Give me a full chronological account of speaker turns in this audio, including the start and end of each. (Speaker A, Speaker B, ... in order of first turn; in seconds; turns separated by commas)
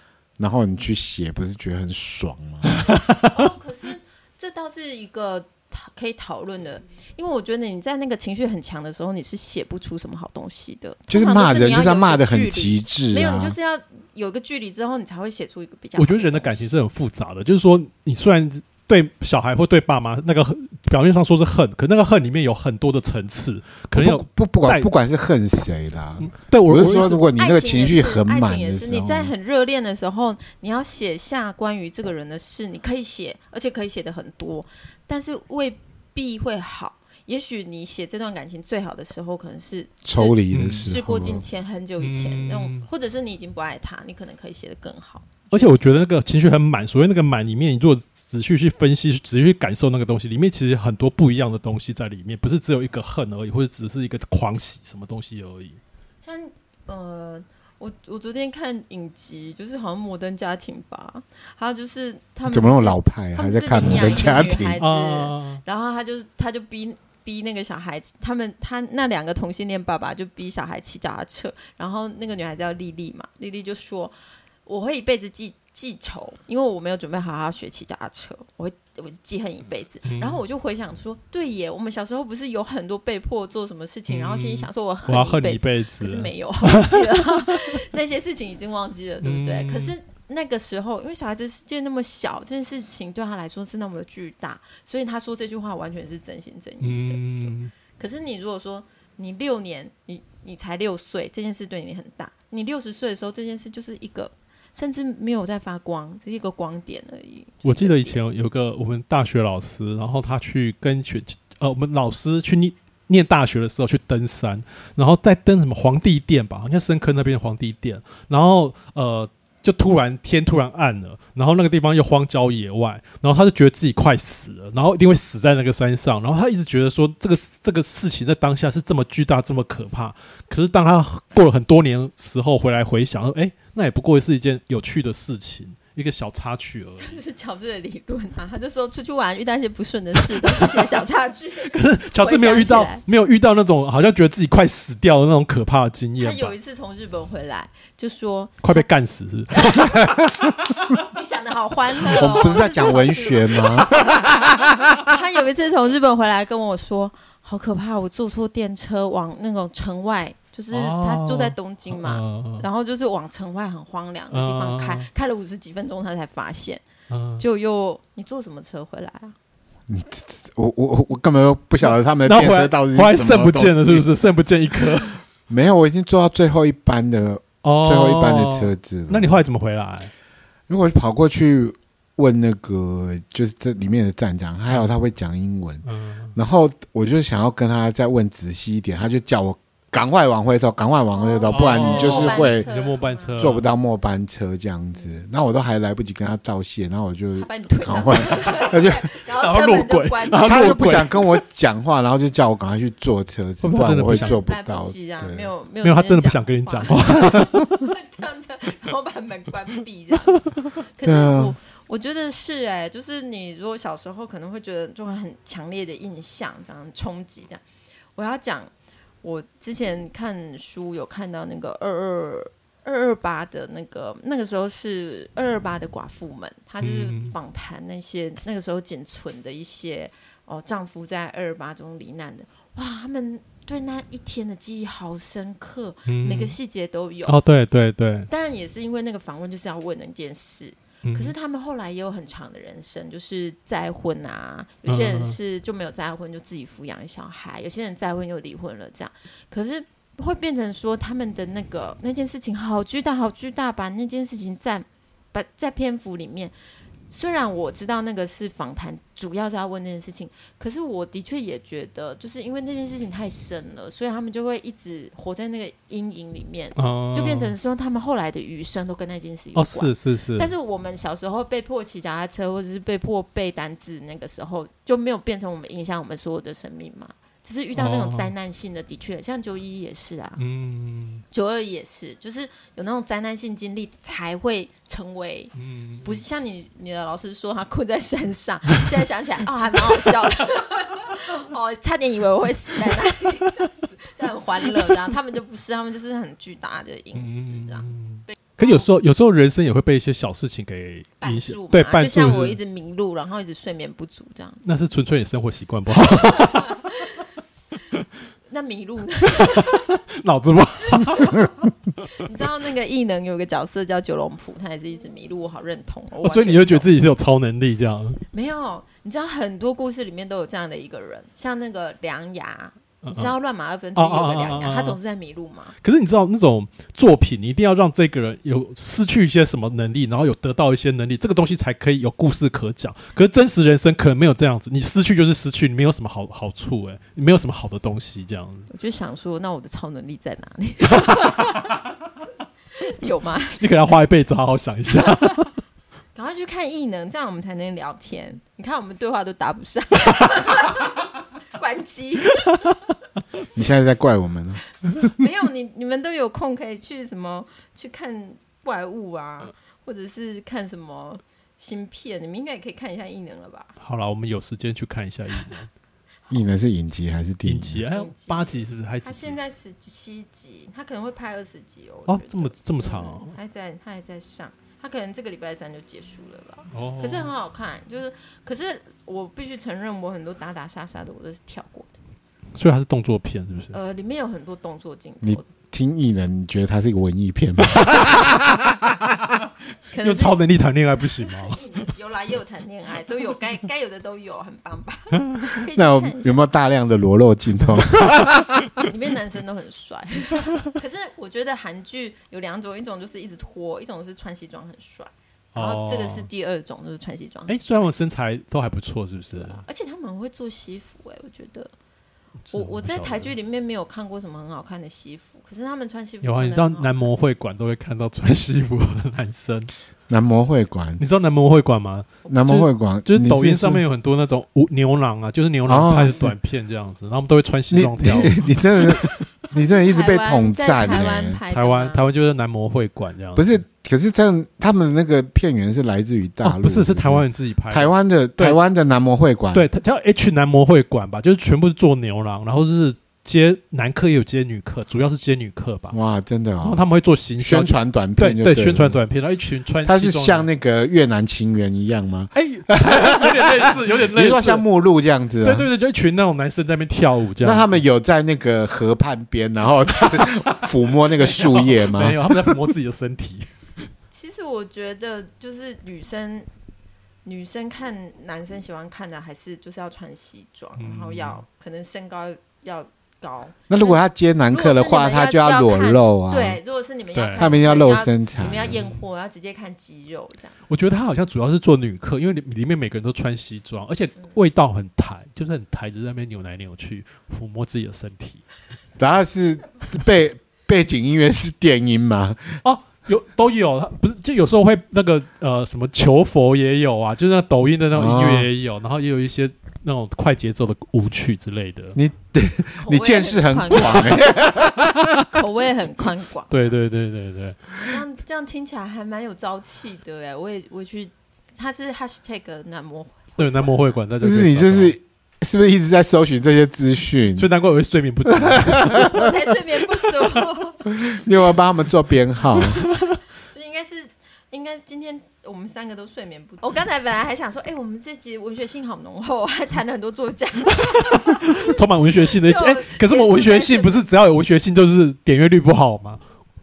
Speaker A: 0.4-2.9, Speaker B: 3.3-16.7, Speaker A: 11.1-13.6, Speaker C: 16.0-24.9, Speaker A: 23.9-29.3, Speaker C: 26.2-27.2, Speaker B: 27.4-46.0, Speaker A: 40.0-41.4, Speaker C: 40.5-40.9, Speaker C: 42.0-42.9, Speaker C: 45.5-55.8, Speaker B: 56.2-108.2, Speaker A: 62.5-64.8, Speaker C: 64.8-65.6, Speaker C: 80.1-80.4, Speaker C: 84.1-87.8, Speaker C: 89.2-89.9, Speaker C: 96.8-97.7, Speaker C: 107.6-137.2, Speaker B: 137.0-143.0, Speaker C: 140.3-140.8, Speaker C: 141.7-146.6, Speaker B: 146.2-148.9, Speaker C: 148.6-150.2, Speaker B: 149.5-150.1, Speaker B: 151.0-154.4, Speaker A: 152.1-155.1, Speaker B: 154.9-166.8, Speaker C: 160.7-162.7, Speaker C: 164.3-165.1, Speaker C: 167.1-167.4, Speaker B: 167.4-169.3, Speaker A: 169.9-174.1, Speaker C: 171.9-175.2, Speaker A: 175.5-179.4, Speaker C: 177.6-180.1, Speaker A: 180.7-185.8, Speaker C: 185.8-186.4, Speaker A: 186.3-192.7, Speaker B: 191.1-193.4, Speaker C: 191.5-193.7, Speaker A: 193.4-199.1, Speaker B: 197.4-200.8, Speaker C: 199.3-201.4, Speaker A: 200.4-205.5, Speaker C: 203.6-204.4, Speaker B: 204.1-217.6, Speaker C: 205.8-207.9, Speaker A: 211.0-211.6, Speaker B: 218.2-218.7, Speaker B: 219.2-237.4, Speaker C: 226.8-227.3, Speaker C: 236.1-236.6, Speaker C: 237.3-238.3, Speaker B: 238.3-256.5, Speaker C: 241.0-241.3, Speaker C: 244.9-245.4, Speaker B: 257.1-280.4, Speaker C: 266.8-267.5, Speaker C: 269.6-270.5, Speaker C: 277.8-278.3, Speaker C: 280.4-281.2, Speaker B: 281.3-285.5, Speaker C: 285.6-286.2, Speaker B: 286.0-298.9, Speaker C: 297.1-302.6, Speaker B: 301.2-304.7, Speaker C: 304.6-306.9, Speaker B: 306.1-307.3, Speaker B: 308.5-310.0, Speaker C: 309.4-311.5, Speaker B: 310.9-311.5, Speaker B: 312.1-316.9, Speaker C: 316.2-318.2, Speaker B: 318.3-325.8, Speaker C: 323.0-323.3, Speaker C: 323.9-325.0, Speaker C: 325.8-338.7, Speaker B: 338.7-341.7, Speaker C: 341.0-341.5, Speaker B: 342.8-343.6, Speaker C: 343.6-345.6, Speaker B: 346.1-351.0, Speaker B: 351.6-352.7, Speaker A: 353.6-354.6, Speaker B: 355.0-363.7, Speaker C: 363.8-365.7, Speaker A: 366.3-367.9, Speaker C: 367.4-369.4, Speaker B: 367.9-381.9, Speaker C: 372.1-373.3, Speaker C: 376.7-377.3, Speaker C: 382.6-383.8, Speaker B: 383.7-385.5, Speaker A: 385.2-389.4, Speaker B: 389.9-390.4, Speaker C: 390.0-391.6, Speaker B: 391.2-396.5, Speaker A: 395.8-398.8, Speaker B: 398.9-407.9, Speaker C: 405.5-406.3, Speaker C: 407.5-409.6, Speaker B: 409.3-411.7, Speaker C: 412.5-413.3, Speaker B: 412.5-417.0, Speaker C: 416.2-419.7, Speaker A: 420.1-421.0, Speaker C: 421.0-429.0, Speaker A: 422.3-423.9, Speaker A: 425.7-426.4, Speaker A: 427.7-431.4, Speaker B: 429.5-432.0, Speaker C: 431.5-433.6, Speaker A: 433.4-439.7, Speaker C: 436.4-438.6, Speaker C: 439.5-446.0, Speaker A: 445.9-446.9, Speaker C: 446.6-450.5, Speaker A: 447.4-449.0, Speaker A: 449.9-455.7, Speaker C: 452.3-454.6, Speaker C: 455.4-457.8, Speaker A: 457.4-462.6, Speaker C: 459.9-463.5, Speaker B: 464.1-466.5, Speaker B: 467.2-480.6, Speaker C: 470.8-471.4, Speaker A: 473.7-476.6, Speaker C: 477.1-477.6, Speaker A: 477.4-478.8, Speaker C: 478.4-479.0, Speaker C: 480.7-488.4, Speaker A: 489.0-492.6, Speaker C: 492.6-502.0, Speaker A: 497.9-498.5, Speaker A: 501.9-505.2, Speaker B: 502.8-504.4, Speaker B: 505.3-506.7, Speaker C: 506.5-507.8, Speaker B: 507.9-513.9, Speaker C: 513.4-515.0, Speaker A: 514.2-517.5, Speaker C: 517.4-519.1, Speaker A: 518.3-519.3, Speaker B: 518.9-520.9, Speaker A: 520.9-522.8, Speaker B: 523.5-534.1, Speaker C: 530.7-536.2